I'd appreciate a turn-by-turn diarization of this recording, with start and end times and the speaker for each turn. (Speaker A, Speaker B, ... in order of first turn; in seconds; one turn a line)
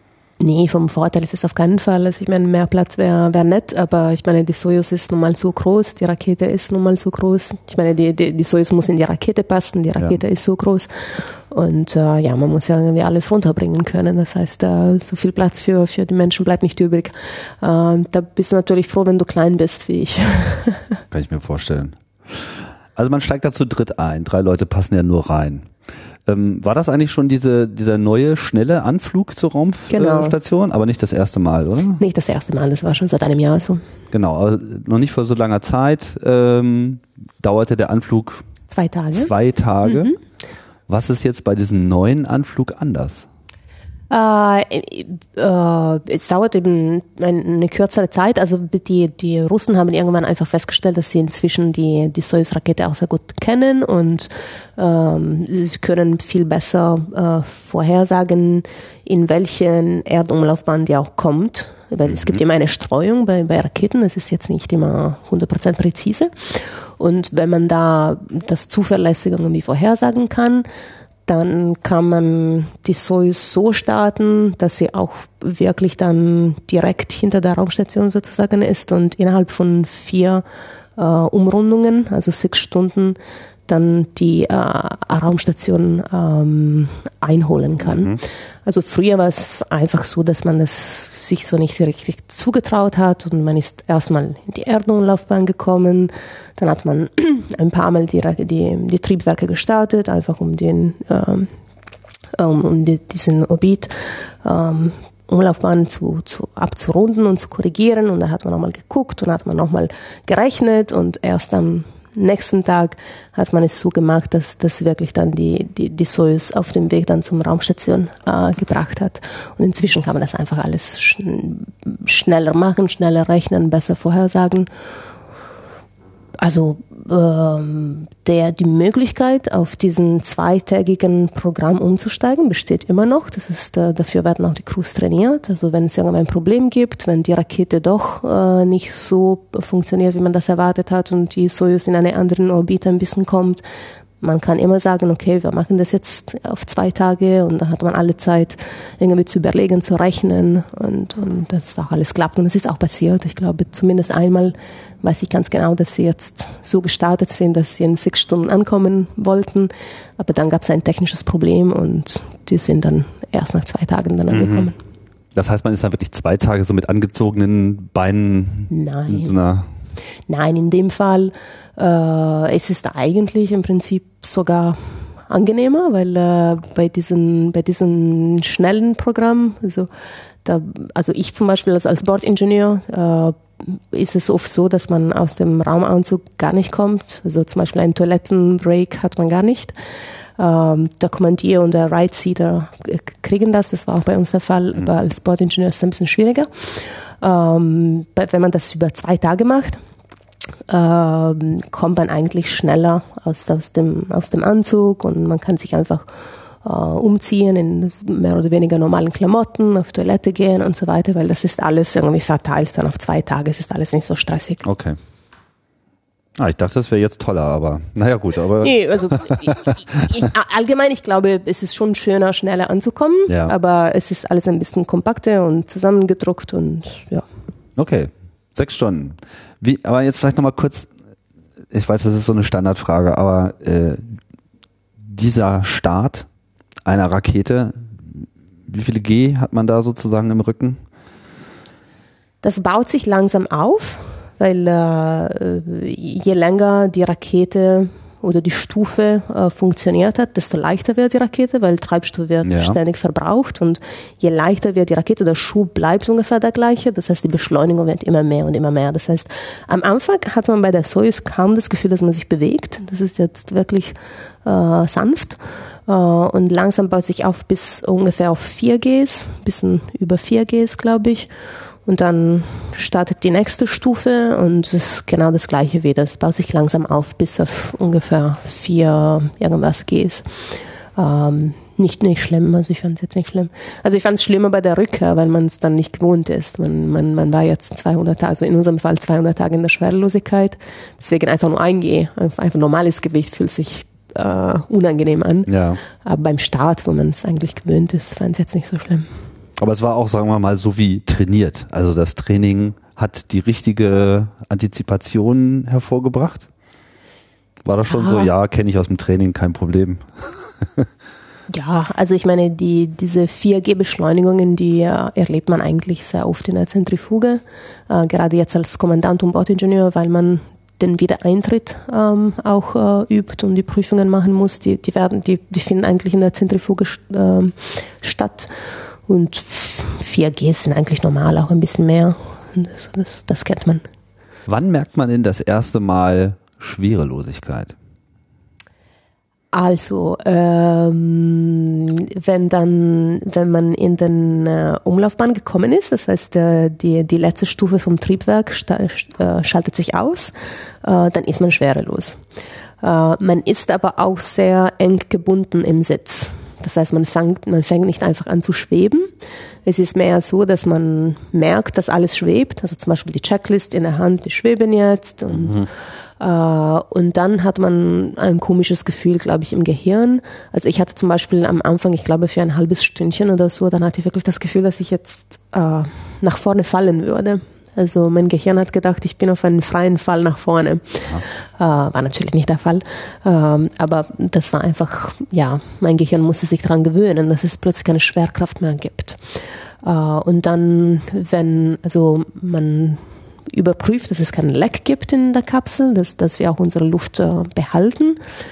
Speaker A: 0.4-21.0
Speaker B: 21.1-25.7
Speaker B: 26.3-32.0
Speaker A: 29.9-30.4
Speaker A: 32.0-33.8
Speaker B: 34.1-38.4
Speaker A: 38.7-39.3
Speaker B: 39.1-40.1
Speaker A: 39.8-40.2
Speaker B: 40.9-43.3
Speaker A: 44.1-70.7
Speaker B: 62.1-62.4
Speaker A: 71.3-80.4
Speaker A: 81.0-101.5
Speaker B: 87.9-88.2
Speaker A: 102.3-124.7
Speaker A: 126.4-143.6
Speaker A: 144.2-164.8
Speaker B: 164.3-164.7
Speaker B: 165.3-169.7
Speaker A: 168.7-169.4
Speaker A: 170.3-179.9
Speaker A: 180.4-189.8
Speaker A: 190.4-199.8
Speaker A: 200.7-206.1
Speaker A: 206.6-214.6
Speaker B: 214.6-215.0
Speaker B: 216.4-219.8
Speaker A: 218.6-227.3
Speaker B: 223.3-223.6
Speaker B: 227.8-230.9
Speaker B: 231.7-234.2
Speaker B: 235.0-236.3
Speaker B: 236.9-240.8
Speaker A: 242.4-271.3
Speaker B: 252.4-252.8
Speaker A: 271.9-280.4
Speaker A: 281.0-299.1
Speaker B: 295.5-295.8
Speaker B: 299.6-306.5
Speaker B: 307.6-310.9
Speaker A: 307.9-308.3
Speaker A: 311.5-328.5
Speaker A: 329.1-333.8
Speaker B: 334.5-337.7
Speaker A: 339.5-352.2
Speaker A: 352.8-359.1
Speaker A: 359.7-365.7
Speaker B: 365.3-365.7
Speaker A: 366.2-398.2